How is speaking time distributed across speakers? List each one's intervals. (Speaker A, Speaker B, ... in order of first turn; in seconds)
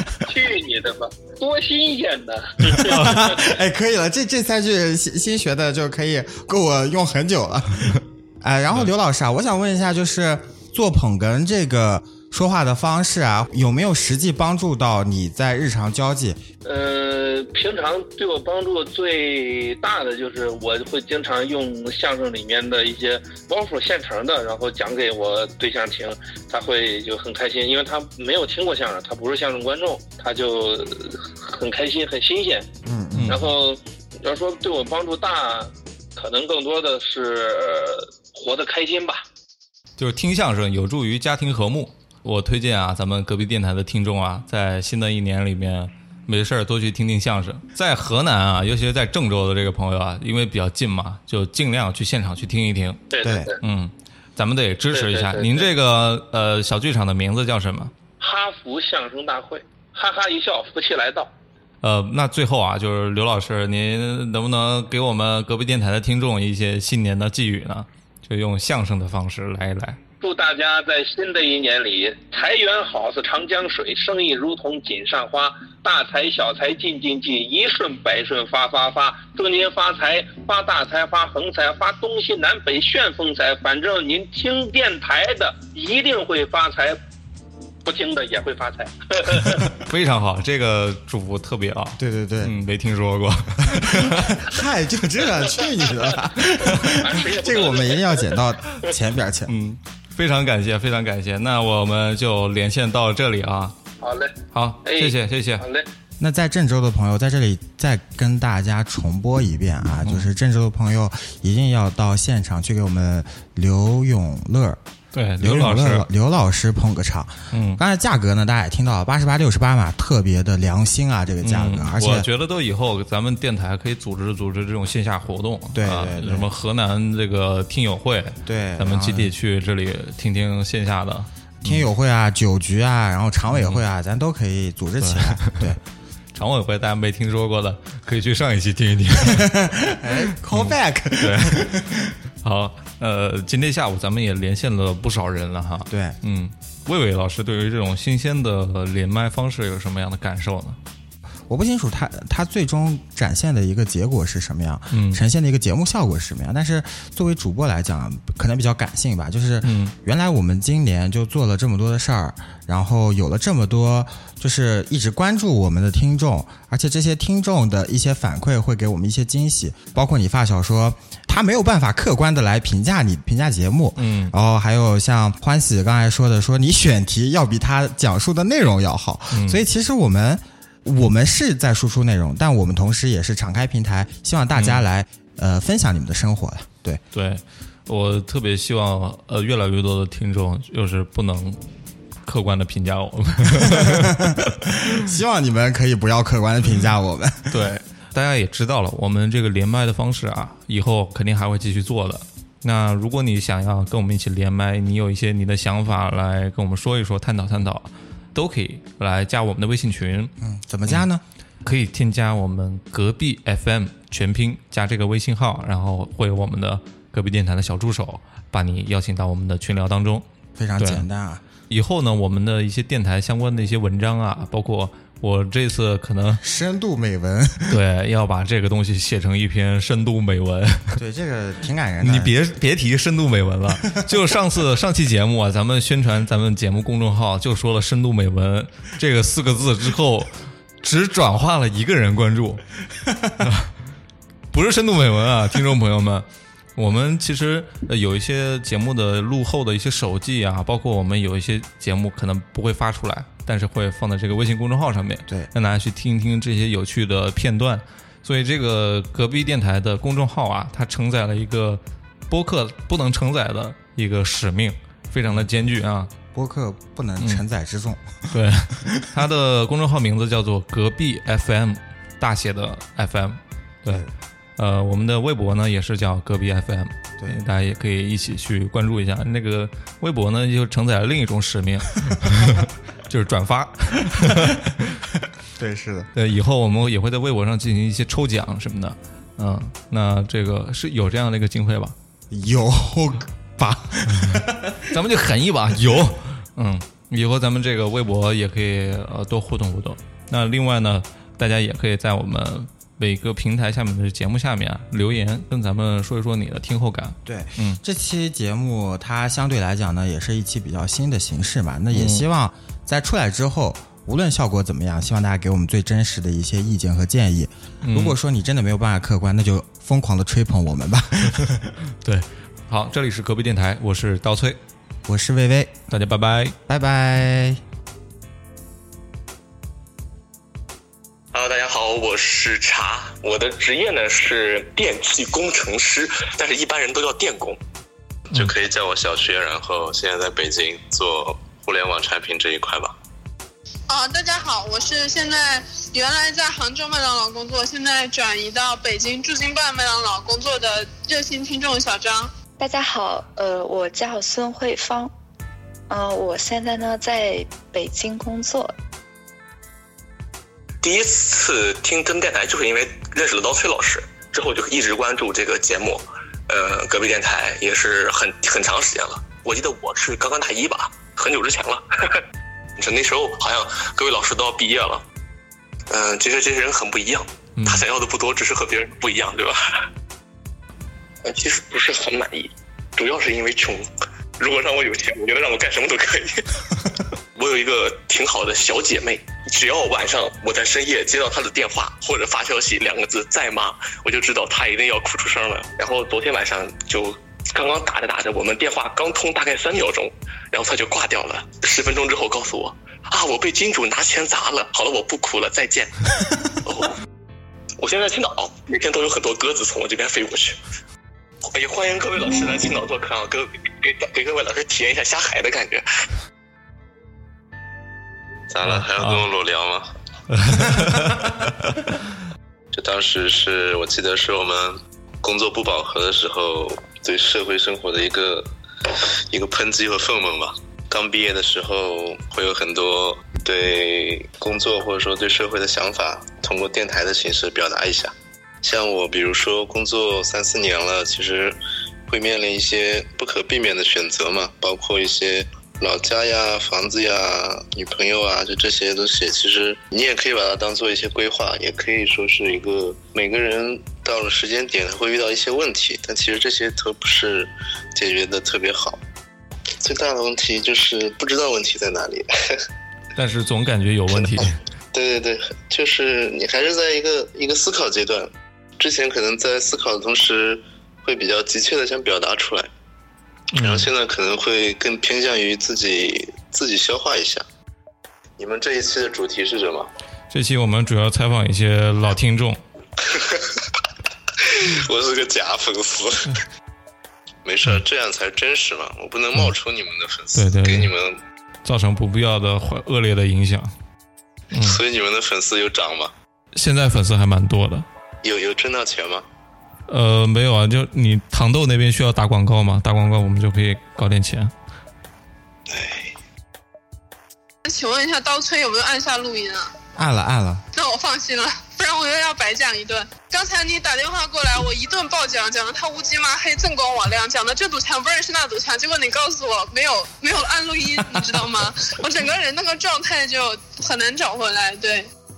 Speaker A: 0.2-3.5, 16.6-32.7, 33.3-39.2, 53.1-53.6, 54.9-55.7, 58.2-61.3, 70.2-87.0, 87.8-89.7, 97.0-98.4, 104.0-105.9
Speaker B: 2.8-3.3, 33.1-33.5, 40.0-53.0, 53.6-57.9, 61.8-70.0, 89.7-94.3, 99.5-103.8, 104.5-105.6, 110.0-110.3, 115.1-116.1, 117.5-117.8, 121.4-131.9, 133.5-133.8, 135.0-135.7, 136.3-141.9, 142.4-150.8, 154.9-155.2, 159.6-159.9, 174.0-174.3, 179.3-179.6, 184.5-184.8, 187.1-191.6, 192.2-194.2, 197.5-210.3, 211.6-220.2, 220.8-221.1, 221.7-226.4, 227.7-231.0, 232.0-242.7, 243.4-243.7, 244.5-266.1, 268.3-274.0, 274.6-284.9, 286.1-291.9, 294.1-307.8, 311.9-312.2, 317.8-318.1, 322.0-324.6, 325.9-326.6, 377.6-377.9, 418.7-419.2, 420.3-421.3, 463.1-464.6, 473.5-473.9, 480.3-482.6, 490.4-490.9, 491.6-493.7, 494.5-494.8, 496.5-497.9, 499.9-504.5
Speaker C: 2.9-16.4, 32.9-33.4, 53.2-53.5, 92.0-92.5, 93.7-99.5, 106.2-114.8, 115.4-122.3, 125.8-126.5, 128.4-129.3, 131.6-135.8, 139.2-142.1, 145.9-146.2, 151.5-187.0, 193.6-197.6, 210.4-211.2, 220.6-221.4, 226.4-227.8, 231.0-232.3, 266.3-268.1, 268.8-269.1, 285.6-286.1, 292.3-294.8, 307.2-321.6, 325.1-325.8, 326.7-327.6, 510.0-510.6
Speaker D: 331.3-337.6, 360.8-372.2, 372.8-375.0, 375.9-379.6, 381.2-386.6, 387.4-406.9, 407.8-410.6, 411.4-415.9
Speaker E: 338.3-343.0, 418.5-419.9, 422.7-428.5, 429.3-459.0, 459.8-462.6, 464.9-472.7, 473.6-477.4, 478.4-479.9, 483.1-483.5, 484.5-486.4, 487.4-491.2, 494.6-496.1, 498.2-499.2, 505.7-506.1
Speaker F: 343.9-352.3, 507.6-509.7, 510.7-525.1
Speaker G: 352.6-355.1, 355.9-358.7